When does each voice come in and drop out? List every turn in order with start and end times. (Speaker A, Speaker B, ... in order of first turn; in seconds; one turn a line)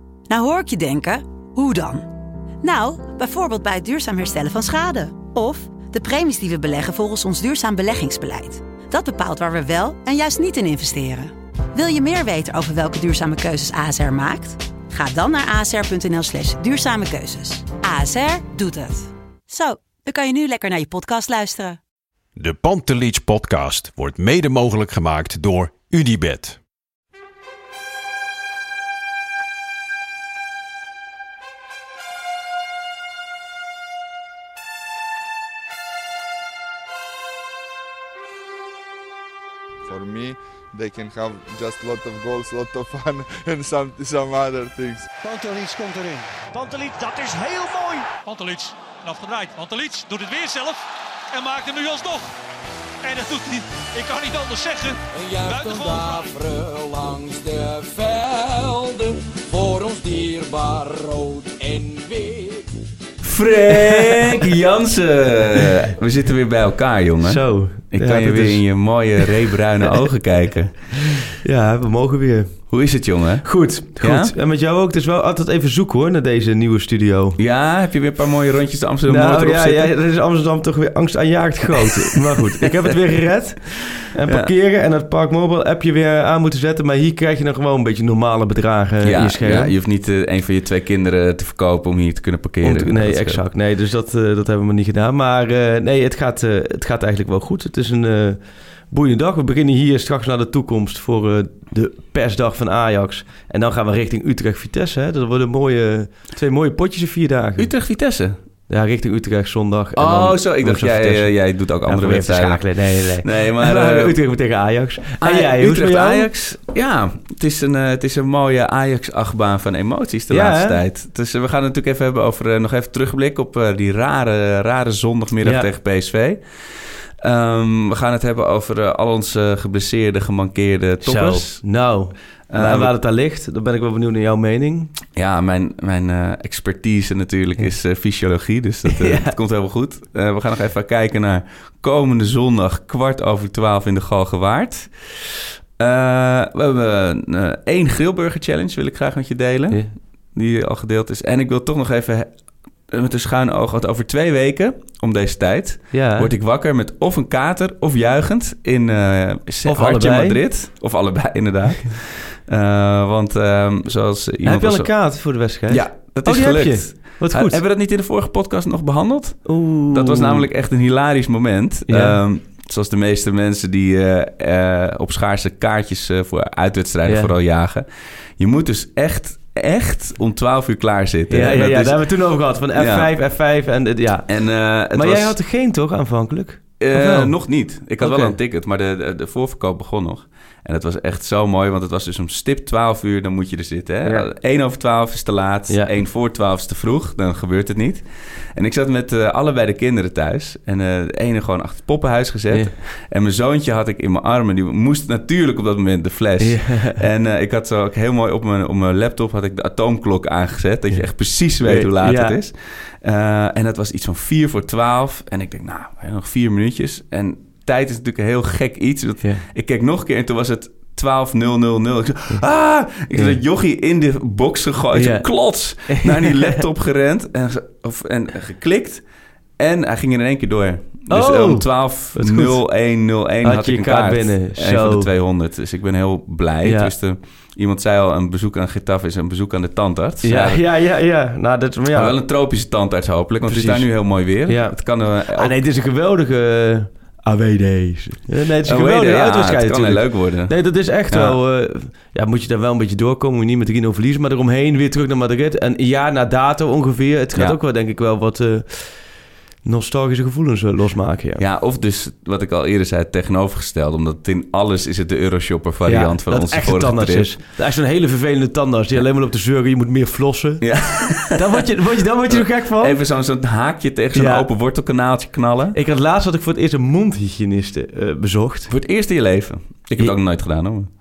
Speaker A: 0.3-2.1
Speaker A: 2.6-21.8
Speaker B: 22.4-26.6
Speaker C: 39.9-45.1
Speaker D: 45.2-48.1
Speaker E: 48.2-50.8
Speaker E: 51.3-52.3
Speaker E: 53.0-56.3
Speaker F: 55.1-62.7
Speaker G: 63.2-70.9
Speaker H: 63.7-64.5
Speaker H: 67.2-69.3
Speaker H: 71.4-72.6
Speaker G: 72.7-74.3
Speaker H: 73.4-77.4
Speaker G: 77.4-79.9
Speaker H: 79.1-89.7
Speaker G: 84.3-84.5
Speaker G: 89.0-93.4
Speaker H: 92.6-107.7
Speaker G: 107.6-108.4
Speaker H: 108.7-116.3
Speaker G: 110.0-114.2
Speaker G: 115.2-131.7
Speaker H: 120.3-120.8
Speaker H: 125.4-125.7
Speaker H: 131.0-134.9
Speaker G: 132.5-132.9
Speaker G: 135.1-149.8
Speaker H: 138.8-139.3
Speaker G: 150.3-152.3
Speaker G: 152.9-165.1
Speaker H: 155.9-156.3
Speaker H: 159.7-160.4
Speaker H: 164.4-167.6
Speaker G: 165.7-177.9
Speaker H: 169.4-170.5
Speaker H: 171.9-172.2
Speaker H: 177.1-177.3
Speaker G: 178.4-182.1
Speaker H: 181.3-188.3
Speaker G: 182.7-183.1
Speaker G: 184.3-185.3
Speaker G: 186.8-229.1
Speaker H: 206.4-207.0
Speaker H: 210.9-212.4
Speaker H: 223.1-223.4
Speaker H: 224.9-226.6
Speaker G: 229.6-240.6
Speaker H: 231.1-232.7
Speaker H: 233.4-235.1
Speaker H: 236.6-236.9
Speaker H: 240.2-242.2
Speaker G: 241.9-245.6
Speaker H: 243.4-259.1
Speaker G: 248.7-250.6
Speaker G: 251.1-251.4
Speaker H: 259.6-261.4
Speaker G: 261.4-267.3
Speaker H: 265.9-273.0
Speaker G: 270.6-271.4
Speaker G: 272.3-275.8
Speaker H: 274.1-274.5
Speaker H: 275.7-278.7
Speaker G: 278.7-280.9